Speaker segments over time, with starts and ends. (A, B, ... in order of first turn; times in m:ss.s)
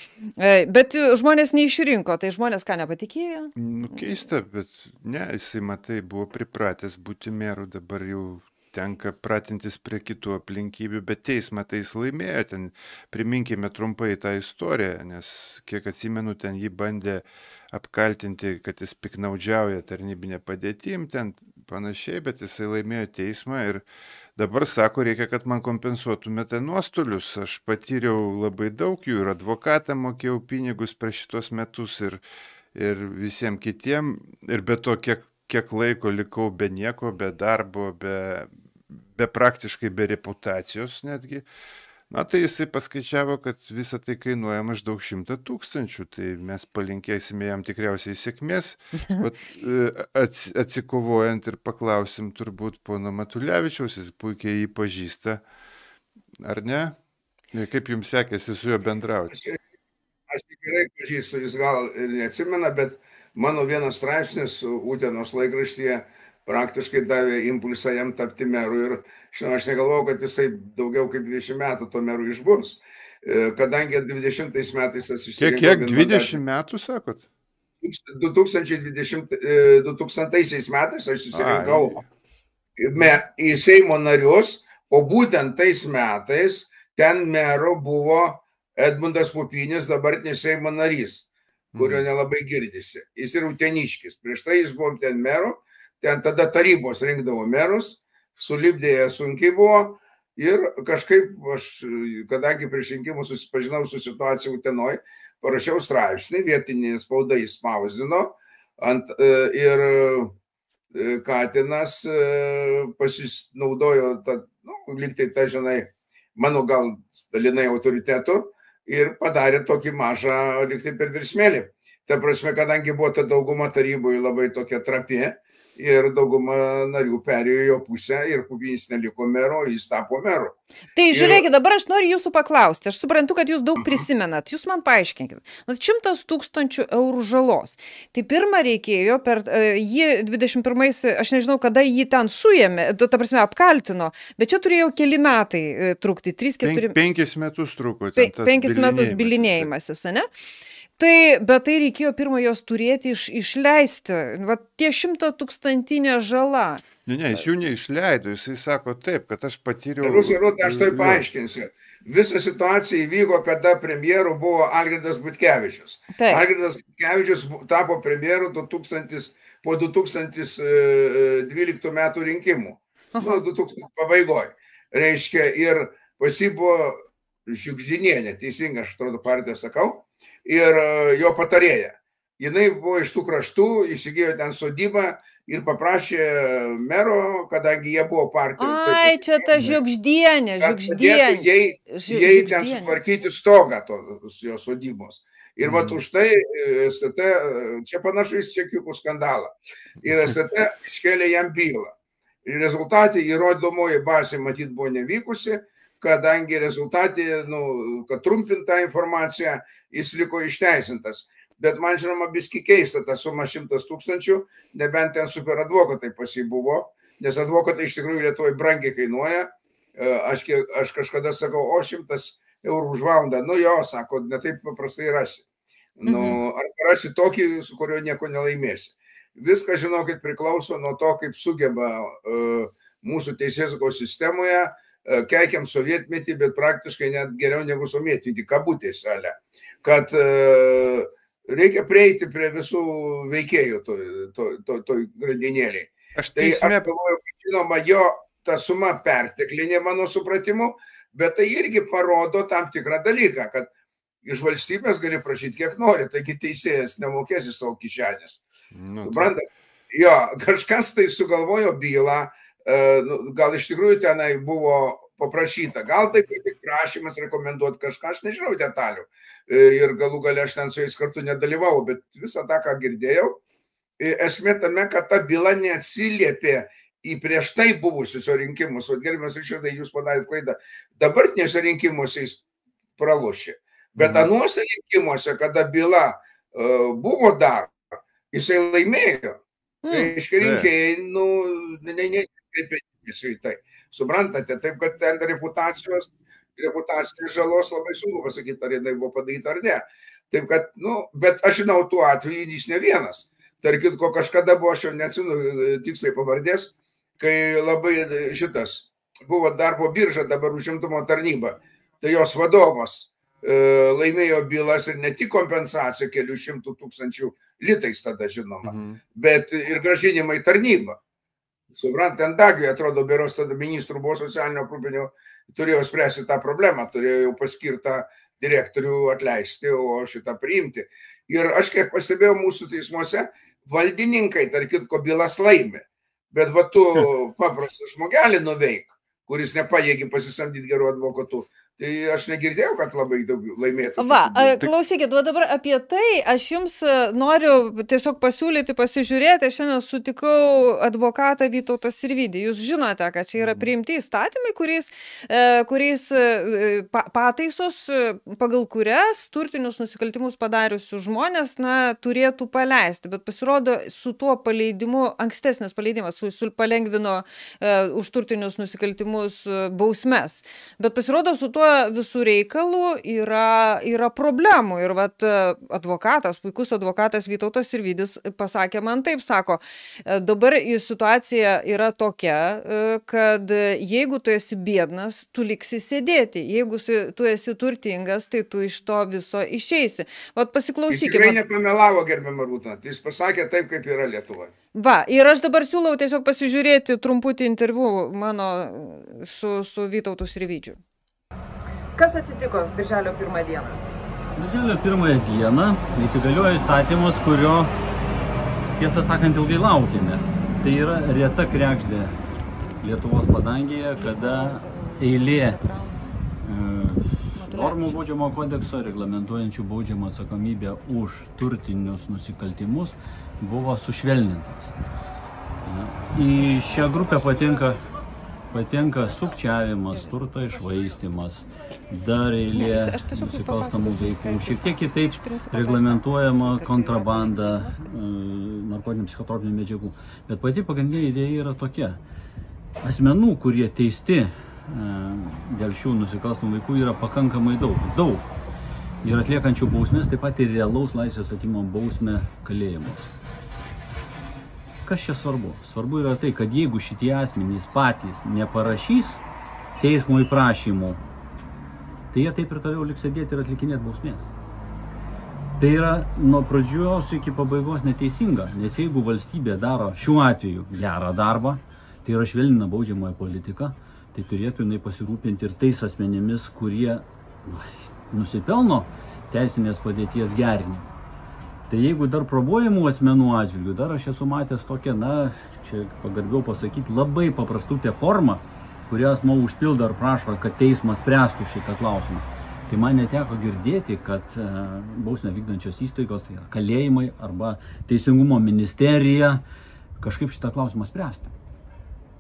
0:00.4-0:03.5 A
0:03.6-0:32.2 B
0:32.8-0:41.5 B
0:42.1-0:55.4 B
0:56.4-0:57.0 B
0:57.5-0:59.3 B
1:00.3-1:16.4 C
1:15.4-1:17.2 B
1:17.8-1:22.0 C
1:21.3-1:22.1 B
1:22.8-1:50.3 C
1:31.7-1:32.0 B
1:50.9-2:10.6 C
2:11.0-2:27.0 A
2:11.1-2:11.4 C
2:13.8-2:14.1 C
2:26.6-2:29.7 B
2:28.2-2:30.3 A
2:31.0-2:36.9 A
2:37.0-2:41.2 B
2:40.0-2:57.0 C
2:46.1-2:46.4 A
2:57.5-3:09.8 C
3:08.6-3:13.0 A
3:10.6-3:21.9 C
3:15.6-3:16.0 B
3:22.4-3:45.4 C
3:46.0-4:13.7 C
3:46.1-3:46.4 A
4:06.2-4:06.9 B
4:14.2-4:18.4 C
4:18.7-4:19.3 B
4:19.0-4:33.4 C
4:34.0-4:42.4 C
4:43.0-4:47.8 C
4:44.0-4:44.3 B
4:48.3-5:21.0 C
4:49.8-4:50.1 A
4:50.4-4:50.7 B
5:18.6-5:19.0 B
5:21.7-5:44.7 C
5:44.0-6:31.4 A
5:53.4-5:53.7 B
6:30.9-6:34.5 C
6:34.7-6:40.8 A
6:42.0-6:43.8 A
6:44.4-6:47.7 D
6:48.8-6:52.2 D
6:52.8-6:55.6 D
6:54.0-6:56.2 A
6:56.4-7:04.7 D
6:57.3-6:58.1 A
7:05.6-7:07.8 D
7:08.5-7:22.0 D
7:12.6-7:17.9 A
7:22.8-7:28.3 D
7:29.0-7:33.1 D
7:34.8-7:39.2 D
7:39.8-7:41.0 D
7:42.1-7:44.3 D
7:45.6-8:00.9 D
8:01.7-8:19.4 D
8:20.0-8:21.3 D